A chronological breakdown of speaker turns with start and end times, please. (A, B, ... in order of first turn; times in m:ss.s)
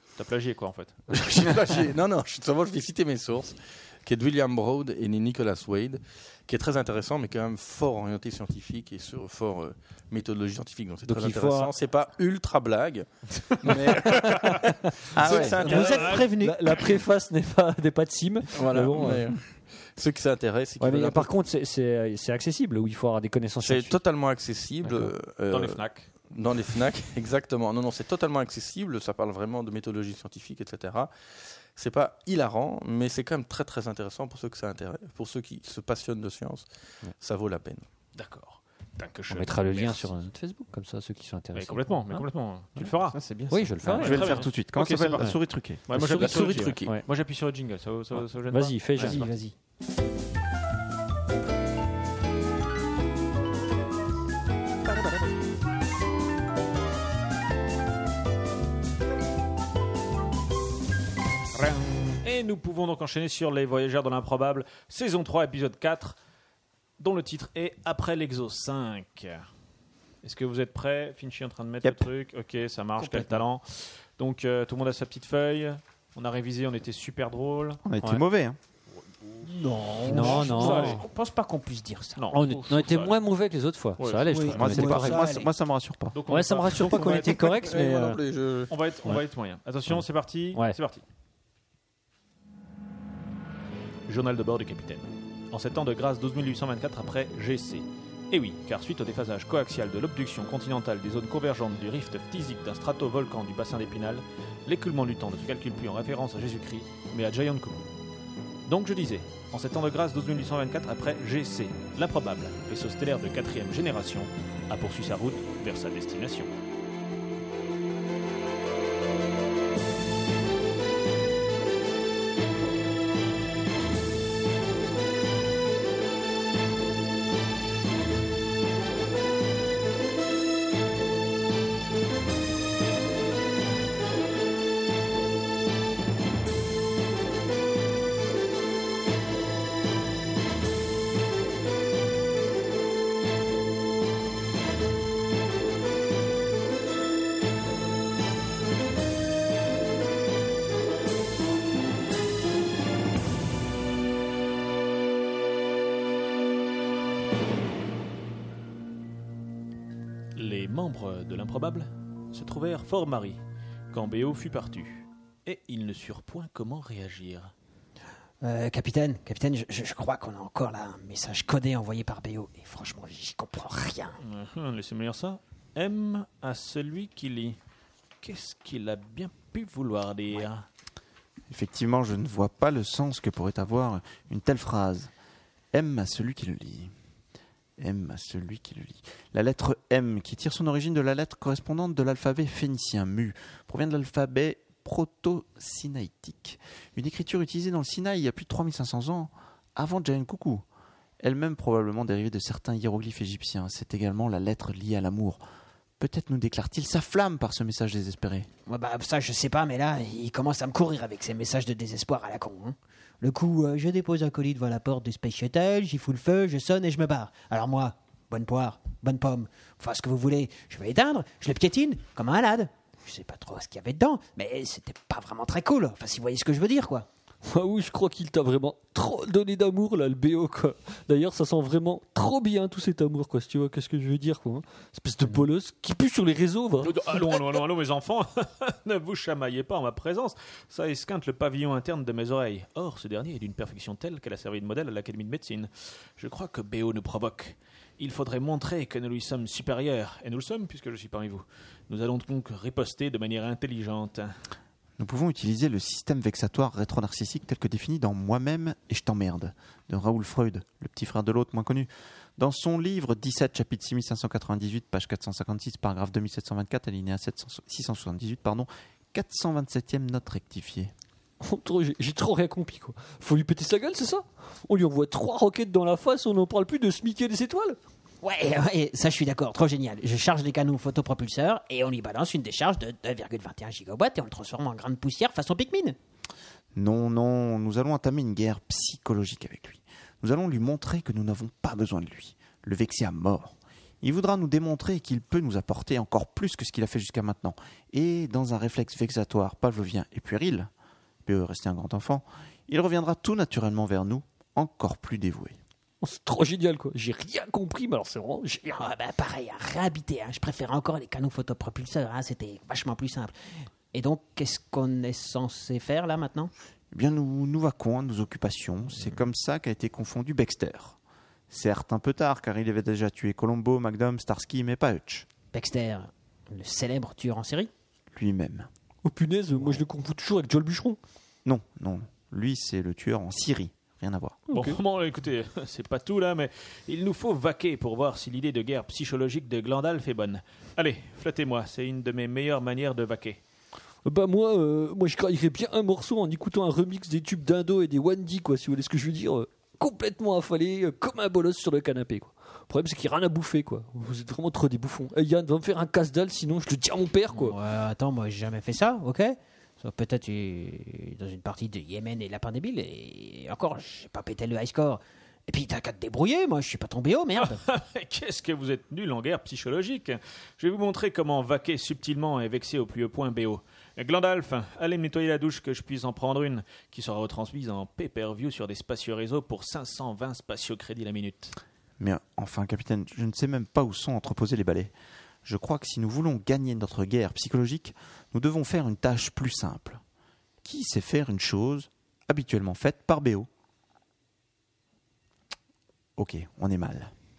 0:00.2-0:01.5 A
0:01.1-0:16.2 B
0:11.0-0:11.7 C
0:14.1-0:14.6 C
0:15.2-0:15.8 D
0:15.3-0:16.6 E
0:15.6-0:19.3 C
0:15.7-0:16.3 A
0:18.5-0:21.3 B
0:20.8-0:24.0 C
0:23.6-0:31.1 B
0:24.8-0:25.1 C
0:25.5-0:26.1 A
0:31.7-0:36.7 B
0:37.2-0:37.8 B
0:38.2-0:40.1 A
0:39.3-0:42.2 C
0:41.6-0:49.3 A
0:43.4-0:44.0 E
0:43.5-0:44.4 C
0:43.8-0:46.4 D
0:46.1-0:47.0 B
0:48.5-0:49.3 C
0:49.0-0:49.5 E
1:01.5-1:06.2 A
1:07.0-1:09.5 A
1:10.2-1:17.8 A
1:11.8-1:12.1 D
1:13.0-1:13.4 E
1:17.8-1:18.6 D
1:18.9-1:19.5 A
1:19.4-1:22.3 E
1:20.0-1:21.0 A
1:20.1-1:21.0 C
1:22.2-1:23.2 A
1:22.3-1:25.3 C
1:24.0-1:24.7 A
1:24.3-1:25.5 E
1:24.6-1:26.2 D
1:26.1-1:27.2 A
1:26.3-1:28.2 C
1:26.9-1:28.7 B
1:28.7-1:31.0 A
1:34.1-1:47.9 A
1:48.7-1:56.5 A
2:40.4-2:43.4 A
2:43.9-2:47.5 A
2:48.4-2:54.2 E
2:54.2-2:57.6 A
2:58.2-3:00.7 A
3:01.5-3:05.1 D
3:05.7-3:06.9 D
3:07.8-3:20.6 D
3:21.2-3:25.4 D
3:26.0-3:28.5 D
3:28.7-3:47.1 E
3:47.4-3:57.4 C
3:56.8-4:14.4 A
4:15.0-4:30.9 D
4:31.4-4:37.8 C
4:38.2-4:46.0 E
4:46.7-5:00.7 D
5:01.3-5:05.6 D
5:06.0-5:08.9 C
5:08.7-5:13.3 E
5:13.9-5:16.5 E
5:16.9-5:21.0 D
5:21.5-5:25.3 D
5:25.5-5:27.7 E
5:28.1-5:28.7 D
5:29.0-5:31.0 C
5:31.4-5:34.4 D
5:34.5-5:34.8 C
5:34.5-5:43.4 A
5:44.0-5:57.6 C
5:57.4-6:07.6 E
6:07.4-6:21.6 A
6:22.0-6:24.9 D
6:25.4-6:30.0 D
6:30.6-6:33.5 D
6:36.2-6:37.1 D